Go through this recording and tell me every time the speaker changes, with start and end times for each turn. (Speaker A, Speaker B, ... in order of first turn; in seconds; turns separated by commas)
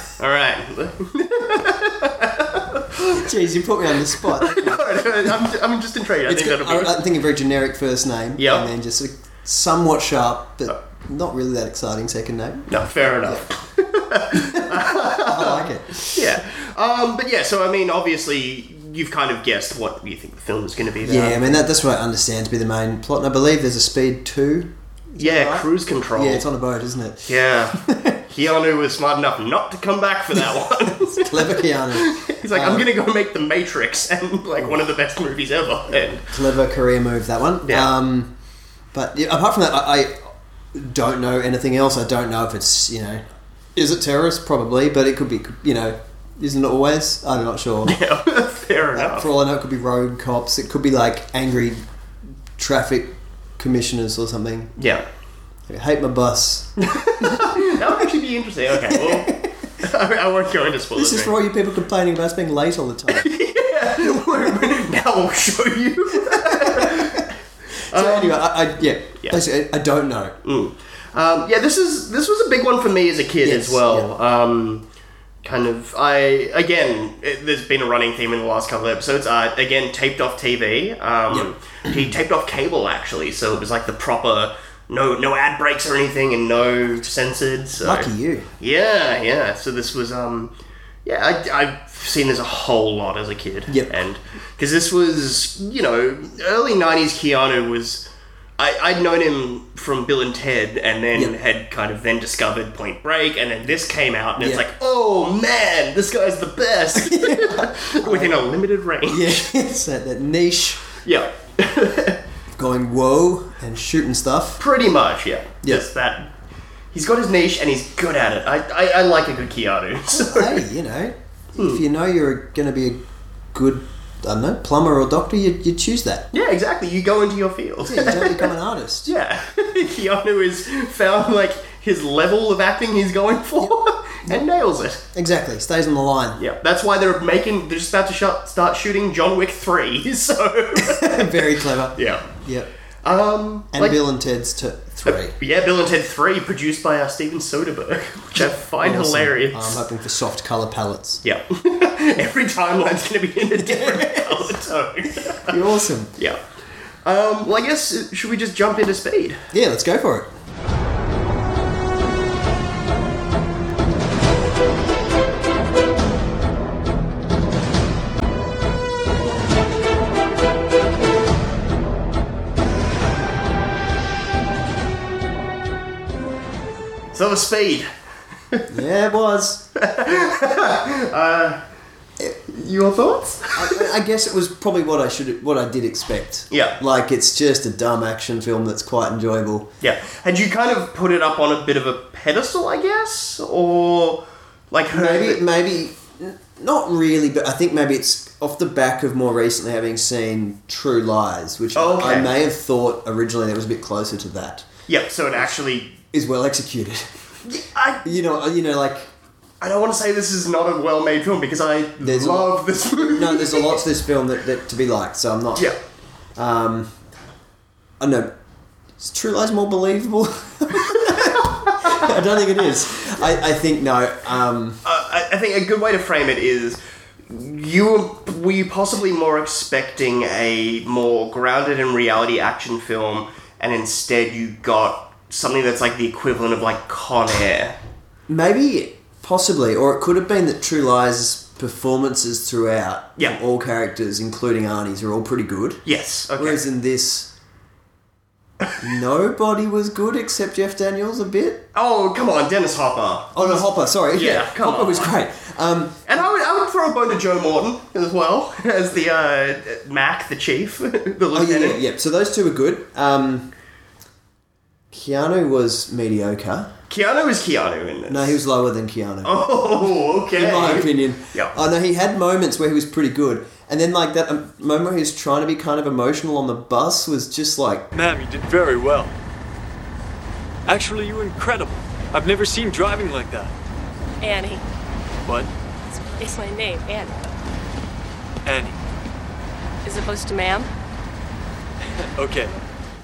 Speaker A: 0.2-3.2, Speaker B: 3.0-5.3, Speaker A: 4.2-7.0, Speaker B: 6.2-12.7, Speaker A: 8.4-8.7, Speaker A: 12.7-21.6, Speaker B: 14.3-16.2, Speaker B: 21.0-28.2, Speaker A: 25.2-26.4, Speaker A: 27.3-36.3, Speaker B: 30.3-32.9, Speaker B: 36.3-38.3, Speaker A: 37.6-38.0, Speaker B: 38.9-43.2, Speaker B: 43.7-48.0, Speaker A: 47.9-49.3, Speaker B: 48.9-51.8, Speaker B: 52.6-54.7, Speaker A: 54.8-55.0, Speaker B: 55.7-58.0, Speaker A: 56.8-61.3, Speaker B: 58.8-59.5, Speaker B: 60.9-63.3, Speaker A: 63.1-67.3, Speaker B: 66.2-67.2, Speaker A: 67.9-68.4, Speaker B: 67.9-70.3, Speaker A: 70.4-74.8, Speaker B: 73.4-74.1, Speaker A: 75.4-88.1, Speaker B: 81.3-82.1, Speaker B: 87.8-88.5, Speaker A: 88.6-90.5, Speaker A: 91.0-98.0, Speaker A: 98.6-109.5, Speaker B: 104.4-104.6, Speaker B: 106.9-108.5, Speaker B: 109.0-110.8, Speaker A: 111.0-112.2, Speaker B: 112.6-114.6, Speaker A: 114.6-116.3, Speaker B: 115.6-115.9, Speaker A: 116.9-120.6, Speaker B: 120.1-126.3, Speaker A: 121.6-121.8, Speaker A: 126.3-128.5, Speaker B: 127.8-129.1, Speaker A: 129.0-135.0, Speaker B: 135.1-136.4, Speaker A: 136.4-142.3, Speaker B: 140.7-142.7, Speaker A: 143.0-144.0, Speaker B: 143.7-145.3, Speaker A: 145.1-149.8, Speaker B: 148.4-151.2, Speaker A: 151.2-155.6, Speaker B: 153.6-154.6, Speaker B: 155.5-156.1, Speaker A: 157.0-159.4, Speaker B: 159.5-160.3, Speaker A: 177.1-177.9, Speaker B: 178.7-179.7, Speaker A: 179.8-181.6, Speaker A: 182.4-183.8, Speaker B: 183.6-189.7, Speaker A: 186.5-186.8, Speaker A: 189.8-195.4, Speaker B: 194.9-204.7, Speaker A: 201.7-202.4, Speaker A: 204.9-205.9, Speaker B: 206.1-207.1, Speaker A: 207.4-208.2, Speaker B: 208.0-209.1, Speaker A: 209.6-213.8, Speaker B: 212.0-215.7, Speaker B: 216.3-216.9, Speaker B: 218.0-218.3, Speaker B: 219.0-224.8, Speaker A: 220.9-222.1, Speaker A: 224.8-237.8, Speaker B: 238.3-247.3, Speaker A: 245.8-246.6, Speaker B: 248.8-251.7, Speaker A: 251.7-253.6, Speaker B: 253.3-256.1, Speaker A: 254.1-255.1, Speaker A: 256.1-261.8, Speaker B: 261.3-263.5, Speaker B: 264.9-266.7, Speaker A: 266.9-268.4, Speaker B: 268.1-269.4, Speaker A: 269.2-271.6, Speaker B: 270.3-277.9, Speaker C: 277.9-279.1, Speaker C: 280.6-283.5, Speaker D: 284.2-284.6, Speaker C: 285.2-285.5, Speaker D: 286.2-287.3, Speaker C: 288.4-288.8, Speaker D: 289.8-290.7, Speaker C: 292.0-292.5